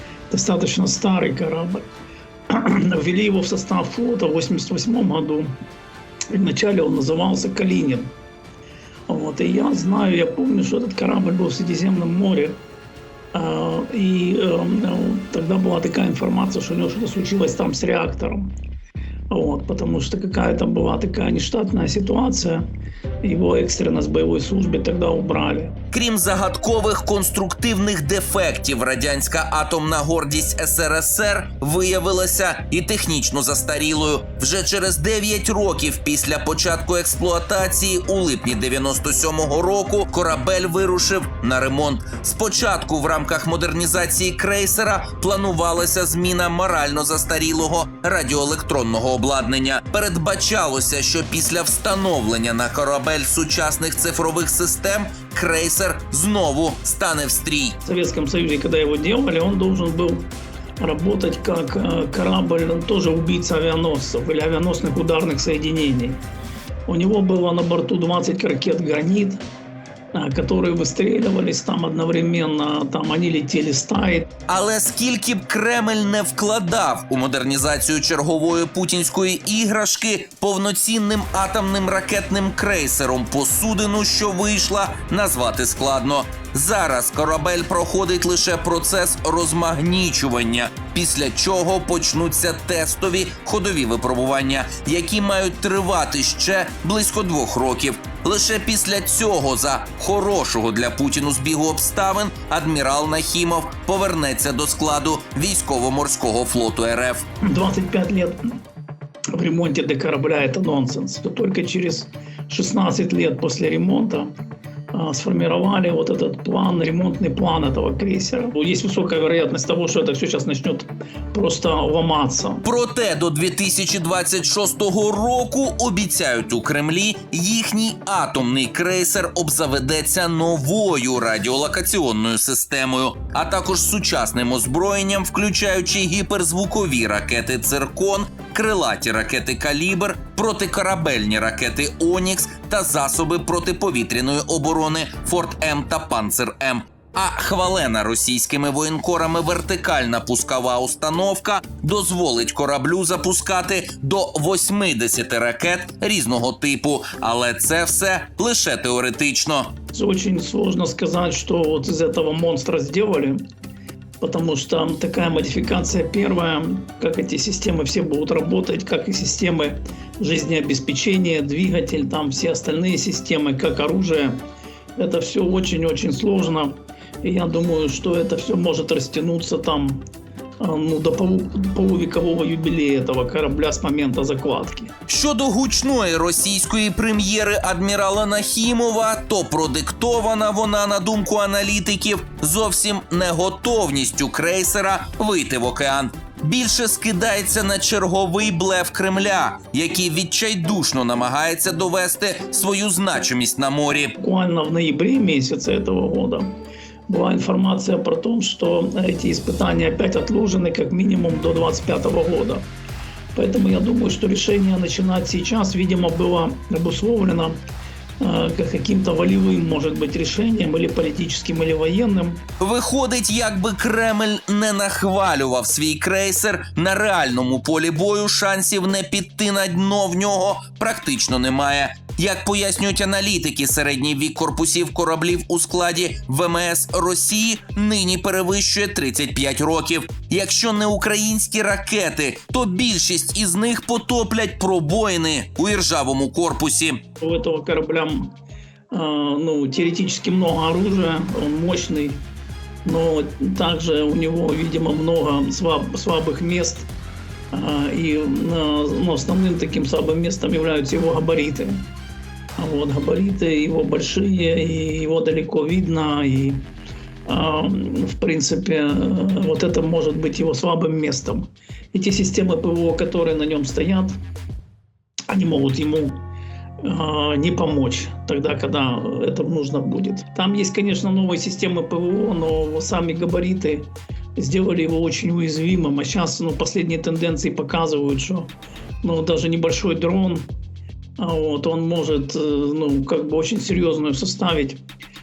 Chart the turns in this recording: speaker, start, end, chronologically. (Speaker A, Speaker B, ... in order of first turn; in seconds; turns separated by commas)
Speaker A: 0.3-1.8, Speaker A: 2.5-5.5, Speaker A: 6.3-8.1, Speaker A: 9.1-12.6, Speaker A: 13.3-18.5, Speaker A: 19.3-22.6, Speaker A: 23.2-25.7, Speaker B: 25.9-57.8, Speaker A: 57.8-66.2, Speaker A: 66.9-69.4, Speaker A: 70.1-74.3, Speaker B: 74.5-107.2, Speaker A: 107.4-108.6, Speaker A: 109.3-114.3, Speaker A: 114.9-122.6, Speaker B: 122.6-159.7, Speaker A: 159.9-163.4, Speaker A: 164.2-174.4, Speaker A: 175.0-180.0, Speaker A: 180.6-184.9, Speaker B: 185.1-204.2, Speaker A: 204.2-206.6, Speaker A: 207.1-212.7, Speaker A: 213.3-217.6, Speaker A: 218.2-222.4, Speaker B: 222.6-247.0, Speaker A: 247.2-248.3, Speaker A: 248.9-252.2, Speaker A: 252.8-256.9, Speaker A: 257.5-261.9, Speaker A: 262.6-266.6, Speaker A: 267.3-274.1, Speaker A: 275.3-276.2, Speaker A: 276.8-290.5, Speaker A: 291.2-294.8